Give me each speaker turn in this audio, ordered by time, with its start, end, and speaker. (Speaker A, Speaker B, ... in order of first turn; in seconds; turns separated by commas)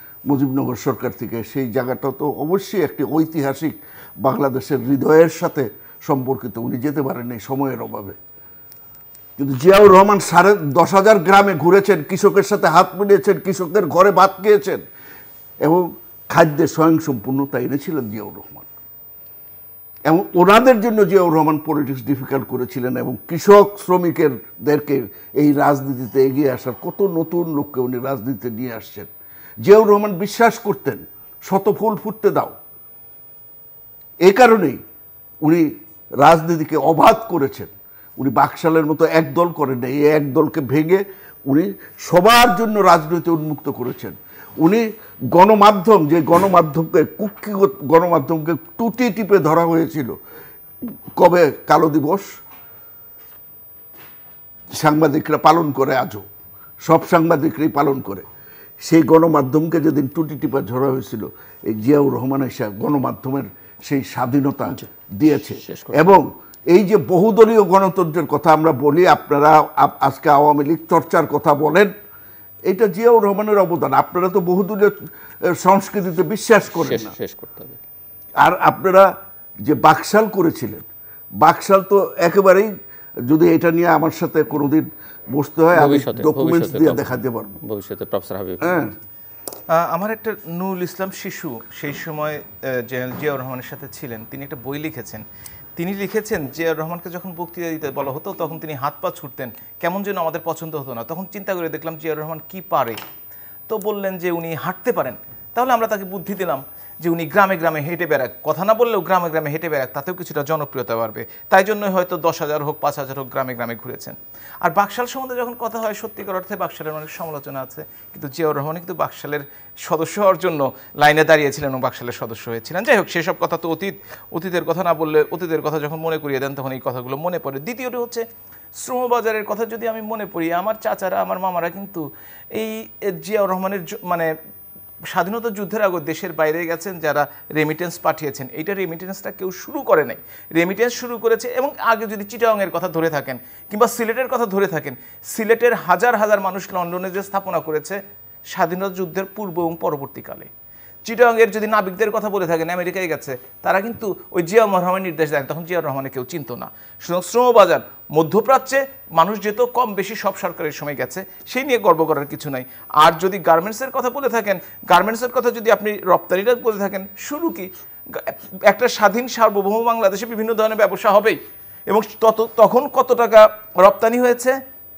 Speaker A: 0.3-8.2, Speaker A: 9.4-14.8, Speaker A: 15.6-18.7, Speaker A: 20.1-29.1, Speaker A: 29.6-32.6, Speaker A: 34.2-34.8, Speaker A: 35.4-50.1, Speaker A: 51.2-52.3, Speaker A: 54.7-56.2, Speaker A: 56.9-58.3, Speaker A: 58.8-71.9, Speaker B: 64.7-66.2, Speaker A: 72.7-77.1, Speaker B: 76.7-77.8, Speaker A: 78.4-79.1, Speaker A: 79.6-80.8, Speaker A: 81.4-82.7, Speaker A: 83.3-87.6, Speaker B: 85.7-88.8, Speaker A: 88.6-88.9, Speaker C: 89.7-95.2, Speaker C: 95.8-103.0, Speaker C: 103.7-128.2, Speaker C: 128.8-134.3, Speaker C: 135.1-148.0, Speaker C: 148.5-150.5, Speaker C: 151.1-174.6